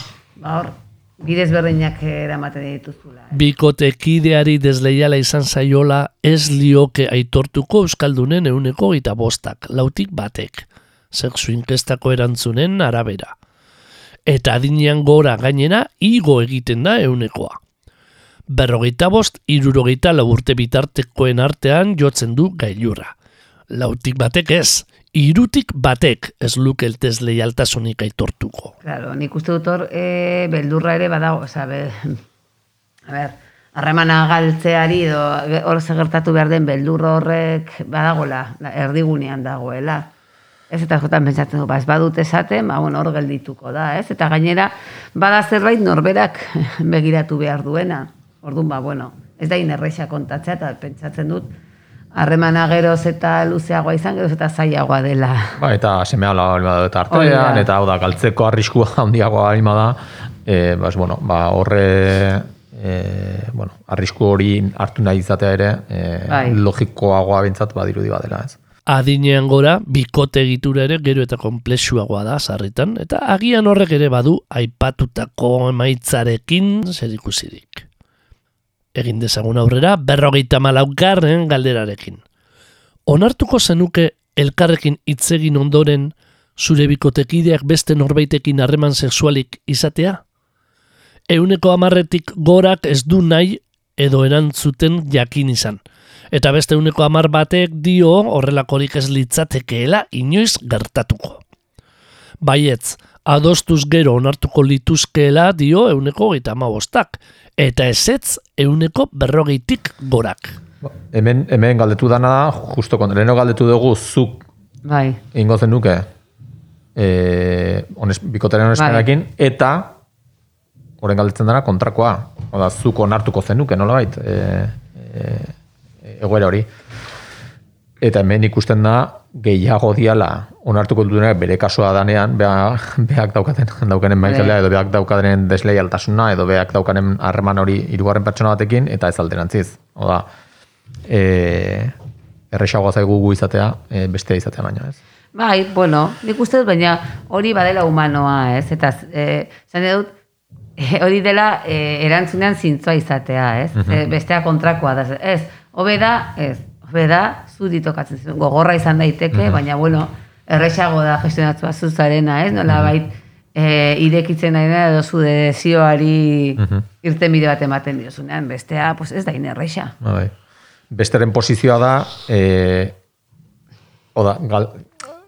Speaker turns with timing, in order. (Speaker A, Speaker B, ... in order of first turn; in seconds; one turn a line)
Speaker A: 0.4-3.4
Speaker B: 3.3-13.3
Speaker B: 14.3-17.6
Speaker B: 18.5-23.1
Speaker B: 23.7-28.8
Speaker A: 28.8-32.2
Speaker A: 33.1-40.1
Speaker A: 40.7-51.5
Speaker A: 52.1-55.6
Speaker C: 55.6-68.6
Speaker A: 57.1-57.7
Speaker A: 66.3-66.6
Speaker B: 68.9-77.9
Speaker B: 79.0-82.2
Speaker B: 83.1-90.2
Speaker B: 91.3-95.8
Speaker B: 96.3-101.4
Speaker B: 102.4-110.6
Speaker C: 110.8-114.5
Speaker A: 114.8-115.2
Speaker C: 115.3-116.1
Speaker C: 117.0-119.9
Speaker A: 118.8-119.1
Speaker C: 121.0-126.7
Speaker C: 128.0-140.3
Speaker A: 134.2-134.6
Speaker C: 141.1-141.9
Speaker C: 142.5-145.0
Speaker A: 145.3-150.1
Speaker A: 150.8-169.9
Speaker C: 153.8-154.1
Speaker C: 159.3-159.6
Speaker C: 166.6-166.8
Speaker C: 170.0-170.3
Speaker C: 170.9-173.0
Speaker C: 174.2-174.9